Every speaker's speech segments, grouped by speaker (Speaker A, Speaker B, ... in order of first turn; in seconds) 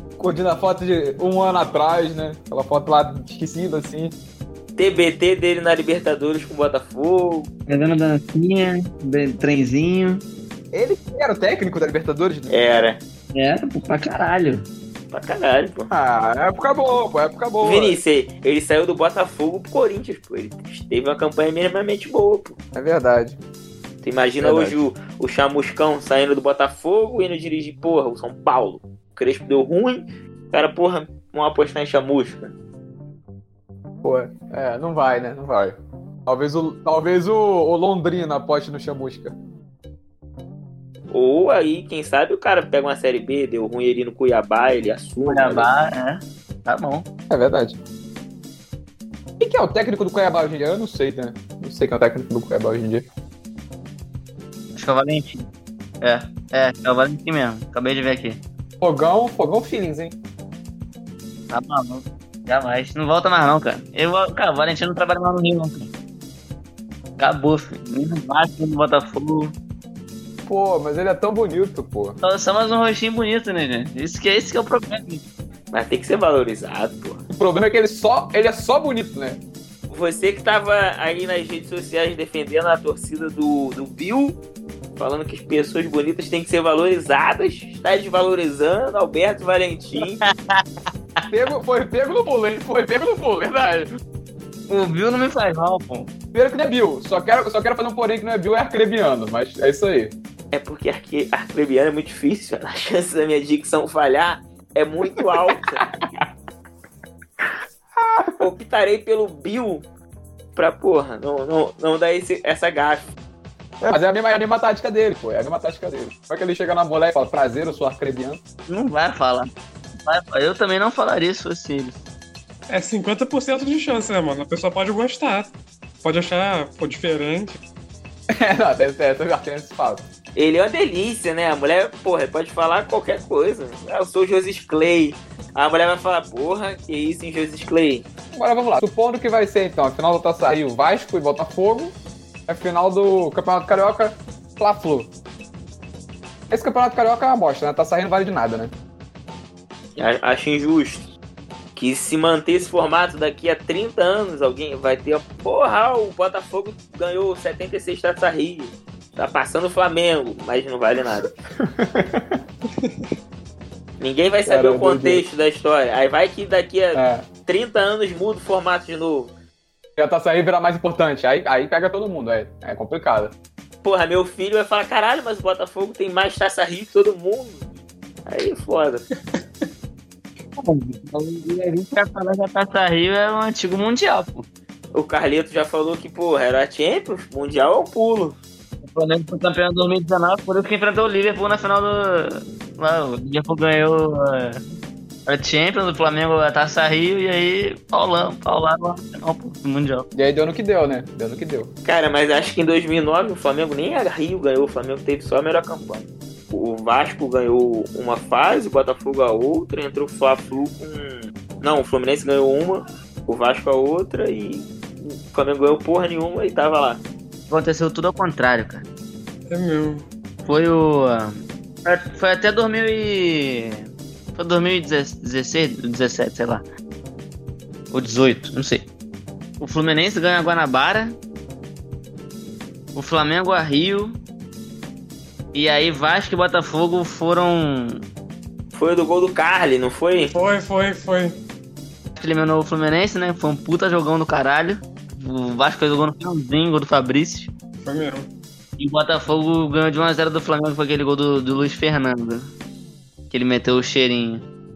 Speaker A: 0.2-4.2, 10.7-12.5, 15.9-18.0, 22.8-23.4, 24.4-24.8, 34.0-39.4, 47.3-47.8, 49.4-53.1, 58.8-60.1, 70.5-72.2, 77.3-79.4, 91.3-93.9, 96.3-100.2, 105.2-106.2, 108.0-108.5, 113.8-118.4, 128.3-130.1, 138.3-142.0, 142.5-145.1, 146.5-148.7, 161.6-162.4, 164.5-165.2, 166.9-167.3, 170.0-173.3, 200.2-201.7
Speaker B: 4.8-7.5, 12.5-13.0, 15.1-15.9, 17.6-22.6, 24.0-32.5, 41.1-45.7, 75.7-77.2, 79.9-84.4, 85.0-90.2, 100.5-105.9, 108.4-109.8, 110.6-113.1, 130.4-138.1, 150.0-151.1, 151.8-161.3, 164.0-169.3, 173.8-177.7, 178.3-179.1, 184.9-188.4, 201.8-217.0, 238.7-240.3
Speaker C: 7.7-10.2, 13.3-14.7, 45.2-47.1, 54.8-55.5, 56.0-58.4, 61.5-65.9, 67.2-69.5, 72.2-75.3, 90.0-90.7, 94.7-96.1, 118.7-119.5, 120.0-122.0, 180.6-184.5, 188.8-194.6, 195.3-200.1, 217.5-218.9, 220.4-226.7, 227.9-228.9, 229.6-231.2, 232.9-234.2, 235.5-238.0, 242.2-247.5, 248.8-252.5, 253.3-254.5
Speaker D: 122.7-125.5, 126.0-127.6, 162.8-163.1, 219.5-220.1, 240.3-241.4, 247.8-248.3